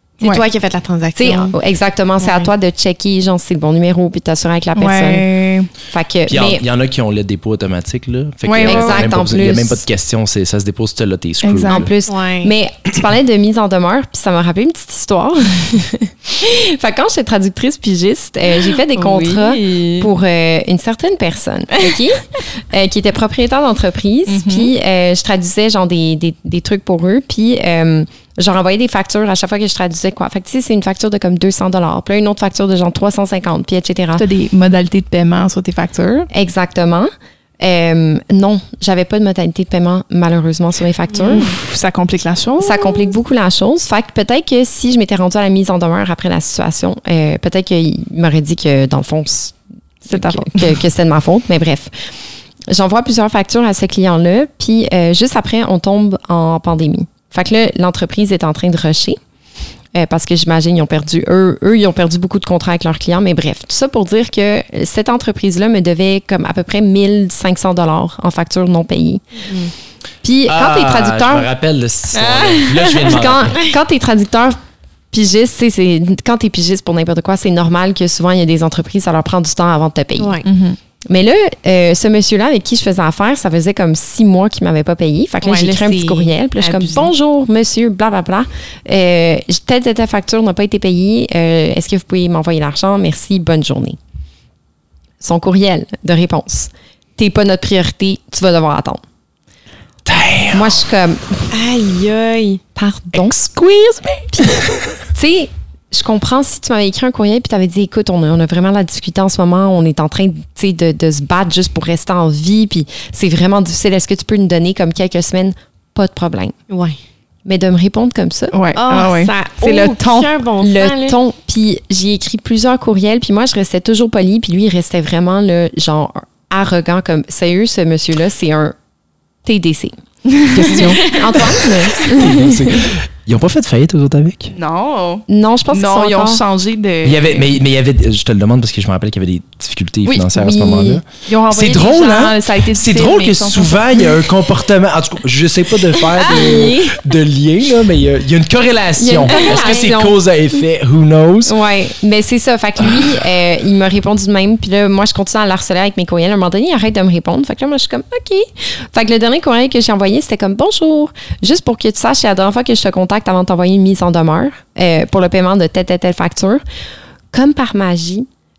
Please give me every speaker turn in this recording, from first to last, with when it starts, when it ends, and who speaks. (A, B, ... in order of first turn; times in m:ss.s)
0:00.2-0:01.6 A
0:01.2-0:05.3 B
0:02.2-0:02.5 A
0:04.8-0:05.7 C
0:05.9-0:06.6 B
0:06.3-0:11.9 D
0:08.5-0:09.1 C
0:08.6-0:09.8 B
0:11.4-0:11.9 C
0:11.7-0:34.2 B
0:12.1-0:12.5 A
0:18.6-0:20.1 C
0:24.3-0:24.7 C
0:34.2-0:36.3 C
0:36.3-0:41.6 B
0:41.2-0:43.1 C
0:42.6-0:51.9 B
0:50.1-0:50.8 C
0:52.7-0:59.2 B
0:59.9-1:09.2 B
1:10.2-1:11.5 B
1:10.5-1:13.6 D
1:12.1-1:13.1 C
1:13.0-1:14.6 B
1:15.1-1:20.4 B
1:20.2-1:20.5 A
1:20.4-1:20.8 C
1:21.1-1:34.0 B
1:25.4-1:27.1 A
1:35.2-1:39.0 B
1:40.1-1:40.8 D
1:40.5-1:41.5 B
1:41.5-1:42.6 A
1:42.8-1:43.3 B
1:43.1-1:45.0 D
1:44.3-1:44.6 B
1:45.1-1:56.6 B
1:56.7-1:57.0 A
1:57.4-1:58.6 B
1:58.5-2:00.3 C
1:58.8-2:01.2 A
2:00.6-2:08.8 B
2:09.4-2:12.8 B
2:10.5-2:11.0 C
2:10.8-2:11.4 A
2:12.1-2:14.5 D
2:14.6-2:17.5 C
2:15.3-2:16.4 B
2:17.0-2:31.6 D
2:20.4-2:21.0 B
2:21.3-2:24.2 C
2:26.2-2:26.8 C
2:26.2-2:26.9 B
2:29.0-2:30.2 B
2:29.3-2:29.9 A
2:31.5-2:46.6 B
2:47.3-2:48.3 B